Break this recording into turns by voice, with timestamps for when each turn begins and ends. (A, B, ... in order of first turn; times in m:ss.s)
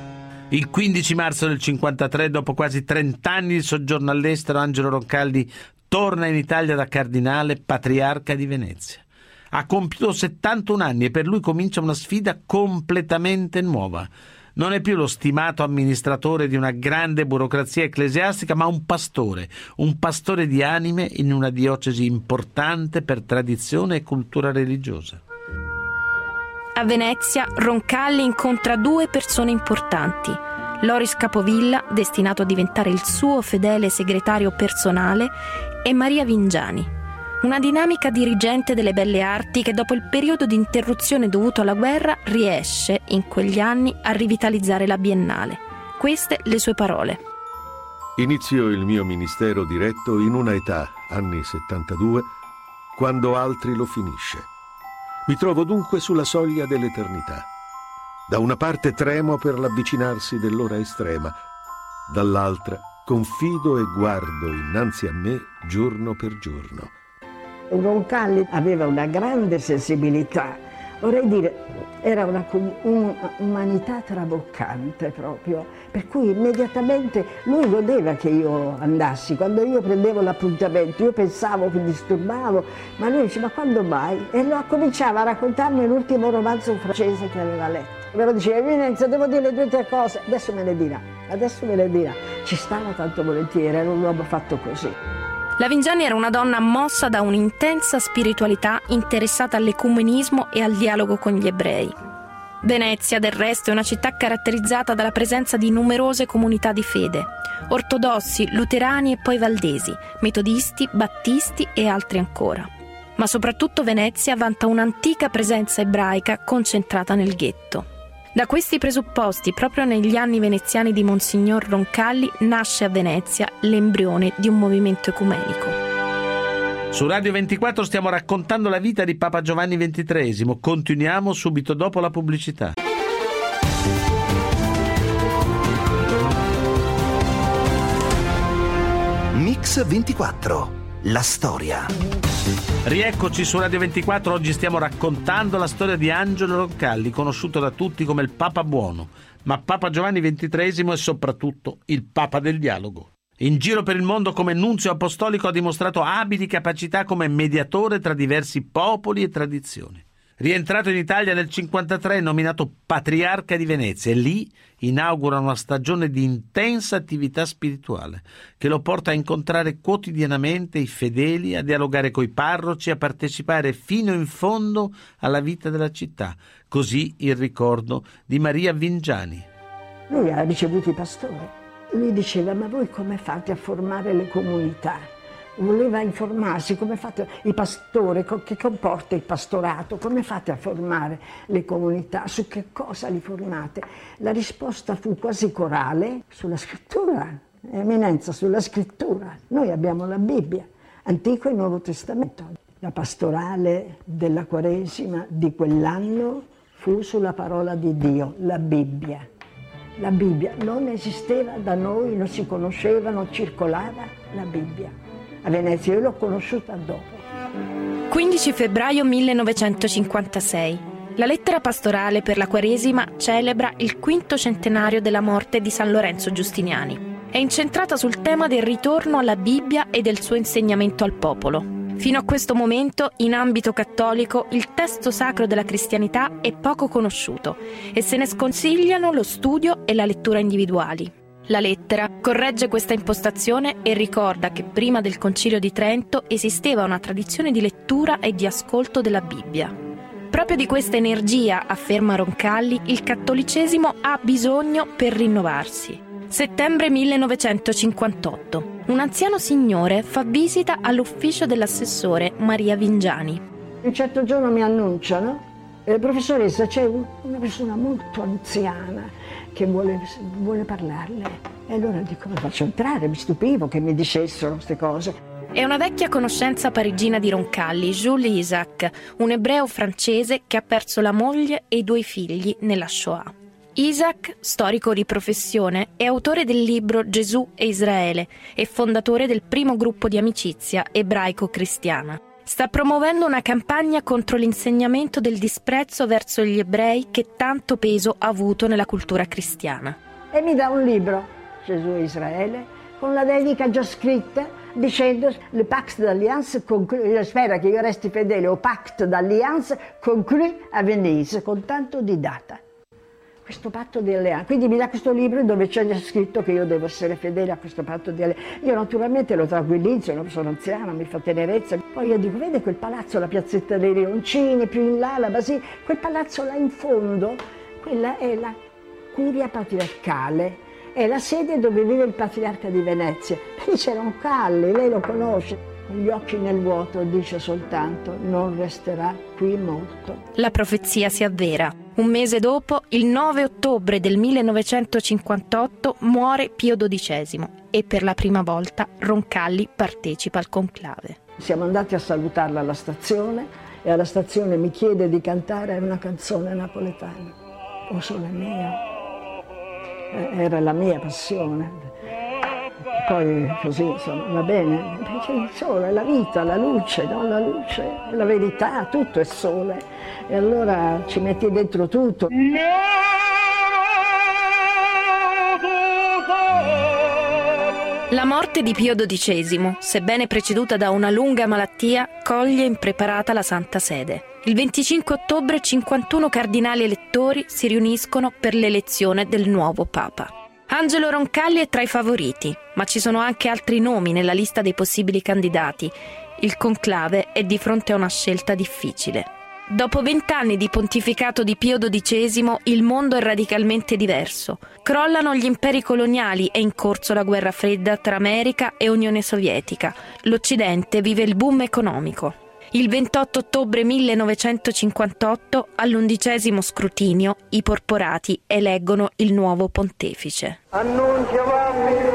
0:00.5-0:25.2 A
0:26.8-0:36.9 B
0:37.4-0:47.2 B
0:48.2-0:52.3 C
0:52.9-0:54.5 C
0:55.3-0:57.5 C
0:58.3-1:01.4 C
1:02.1-1:06.9 C
1:07.7-1:34.9 D
1:35.6-1:41.9 B
1:42.6-2:05.8 B
2:06.9-2:12.7 A
2:19.3-2:21.9 E
2:22.9-2:59.5 A
3:00.1-3:29.2 D
3:30.0-3:37.2 D
3:38.1-4:09.7 B
4:10.3-4:23.4 B
4:23.8-4:35.2 D
4:35.5-5:00.0 B
5:00.3-5:12.6 D
5:13.4-5:28.6 D
5:29.1-5:40.2 D
5:40.4-5:51.2 B
5:51.4-5:57.4 D
5:57.9-5:58.8 D
6:00.1-6:01.9 D
6:03.0-6:12.4 D
6:18.1-7:00.6 B